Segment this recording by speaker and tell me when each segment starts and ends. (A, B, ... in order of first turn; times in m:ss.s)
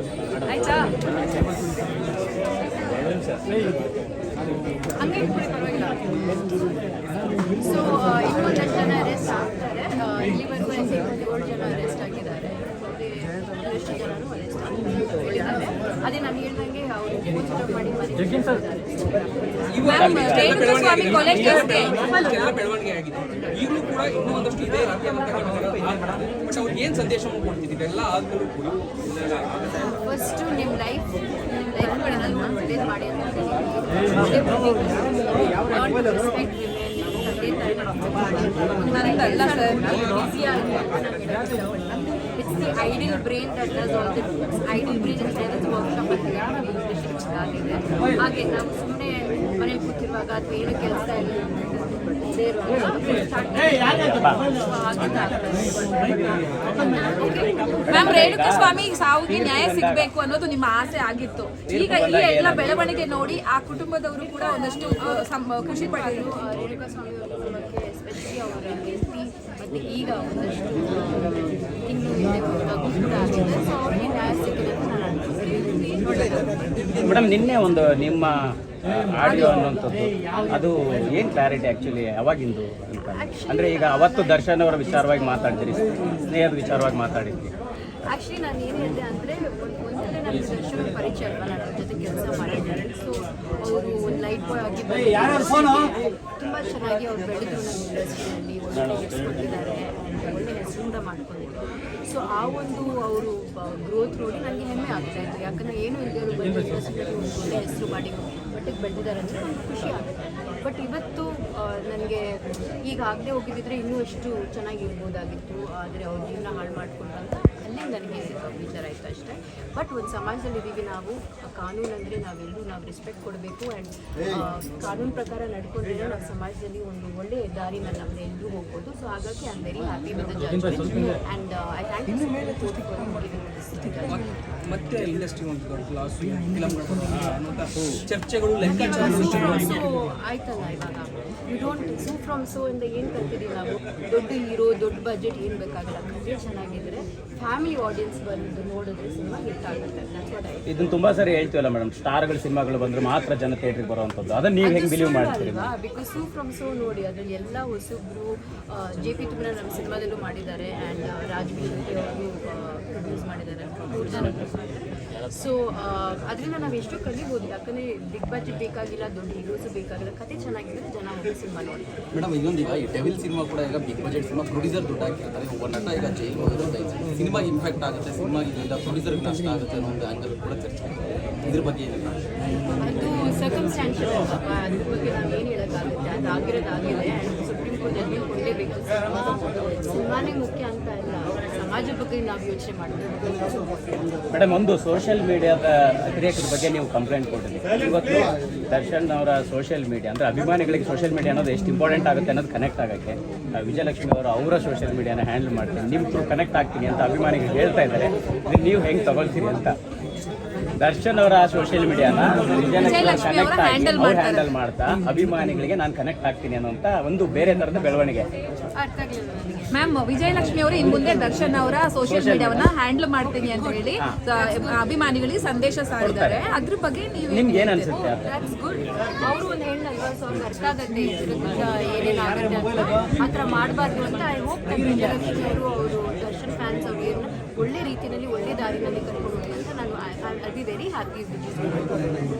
0:00.3-0:00.8 A
0:00.4-0:00.9 B
0:05.0-0:06.4 B
0:07.6-0:19.9 B
0:19.7-0:29.9 C
0:19.8-0:22.0 D
0:19.9-0:21.0 A
0:21.8-0:22.5 B
0:30.0-0:57.9 B
0:31.8-0:32.3 D
0:38.8-0:39.9 D
0:57.8-1:00.1 A
0:57.9-1:06.3 D
1:01.7-1:02.9 A
1:04.2-1:17.3 B
1:17.0-1:18.3 A
1:18.8-1:27.5 A
1:23.0-1:26.2 B
1:28.1-1:52.2 B
1:38.7-1:39.4 A
1:52.9-2:14.2 B
2:14.1-2:19.8 C
2:18.6-2:30.6 B
2:30.7-2:35.7 A
2:34.6-2:51.9 B
2:44.1-2:44.5 A
2:52.1-3:02.2 E
3:02.8-3:13.6 B
3:14.3-3:29.7 A
3:30.8-3:38.3 A
3:32.8-3:34.5 D
3:38.8-3:39.8 B
3:39.7-3:47.9 D
3:42.0-3:42.7 A
3:43.3-3:45.0 B
3:46.0-3:46.4 A
3:47.3-3:48.4 A
3:47.9-4:02.2 B